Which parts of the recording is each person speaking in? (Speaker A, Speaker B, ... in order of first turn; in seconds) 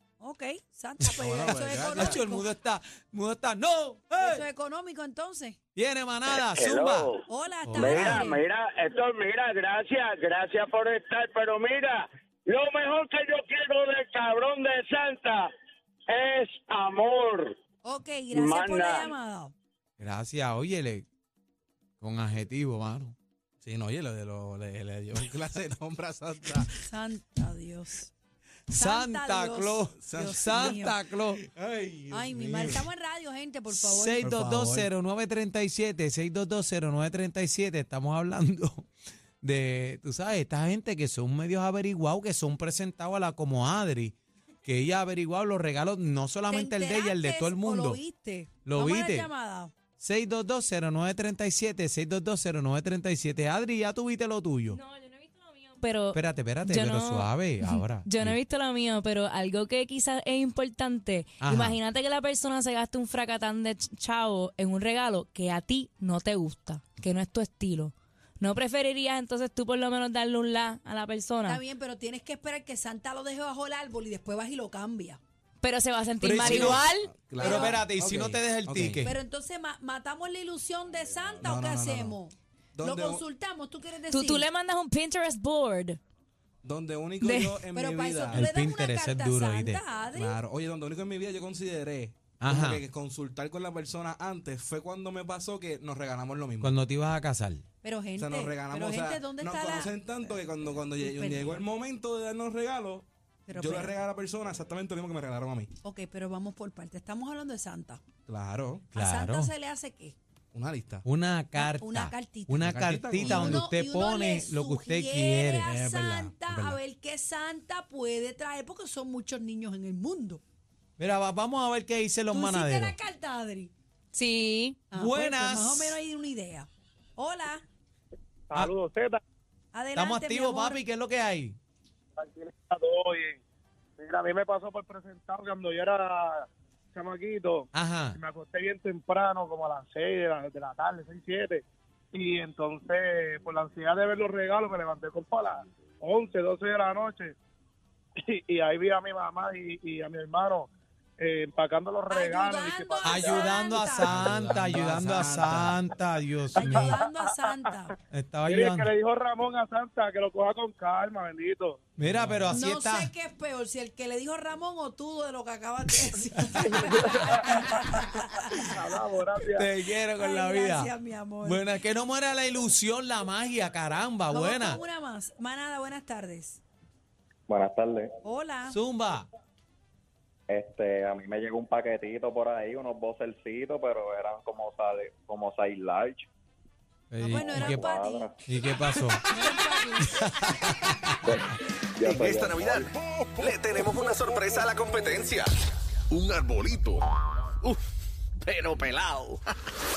Speaker A: 0.2-2.5, 4.2-5.6, 7.3-8.4, 17.8-19.5, 26.8-28.1, 28.8-31.0, 32.1-34.3, 46.5-49.7, 71.5-75.2, 77.4-77.8, 79.0-84.5, 87.7-90.4, 97.8-100.2, 101.0-101.6, 103.5-104.0, 105.8-108.0, 108.9-110.2, 111.6-120.4, 122.3-123.7, 124.9-127.6, 129.7-130.8, 152.1-154.3, 156.6-157.9, 162.5-168.8, 170.1-171.6, 174.3-176.6, 178.2-178.8, 187.2-188.3, 189.3-190.1
Speaker B: 1.2-2.2, 23.6-26.7, 30.0-32.9, 34.2-34.9, 76.5-79.0, 81.4-82.2, 82.8-83.2, 86.6-88.5, 90.2-96.7, 98.2-105.7, 108.3-108.9, 110.5-111.0, 112.6-113.7, 115.6-116.4, 154.1-155.8, 162.1-162.5
Speaker C: 1.8-4.4, 5.8-7.1, 7.7-8.2, 20.0-21.1, 22.0-23.1, 28.7-31.4, 33.7-38.9, 39.4-48.0, 48.6-49.3, 50.0-54.8, 56.1-58.4, 61.4-61.8, 76.2-76.8, 77.4-79.1, 88.3-89.8, 92.4-92.8, 96.6-97.6, 108.9-109.5, 111.0-115.7, 121.0-123.0, 124.9-126.0, 130.0-131.6, 137.7-138.2, 153.0-157.0, 158.1-158.9, 162.0-163.1, 166.4-167.6, 169.5-170.9, 171.4-174.8, 178.7-179.3, 187.1-187.9, 188.5-189.3, 190.0-191.2
Speaker D: 6.4-7.2, 7.8-15.5, 16.1-17.6, 18.3-19.1
Speaker E: 54.7-71.6, 75.6-77.1, 84.1-86.0, 87.2-87.6, 124.1-124.8
Speaker F: 128.5-129.2, 132.2-133.4, 134.0-147.3, 148.2-153.8, 156.6-157.6, 158.5-161.8, 166.9-167.6, 168.5-169.7
Speaker G: 177.5-178.1, 180.5-186.3, 187.3-188.3, 192.0-192.9
Speaker H: 192.1-195.6, 196.1-197.8, 198.4-199.5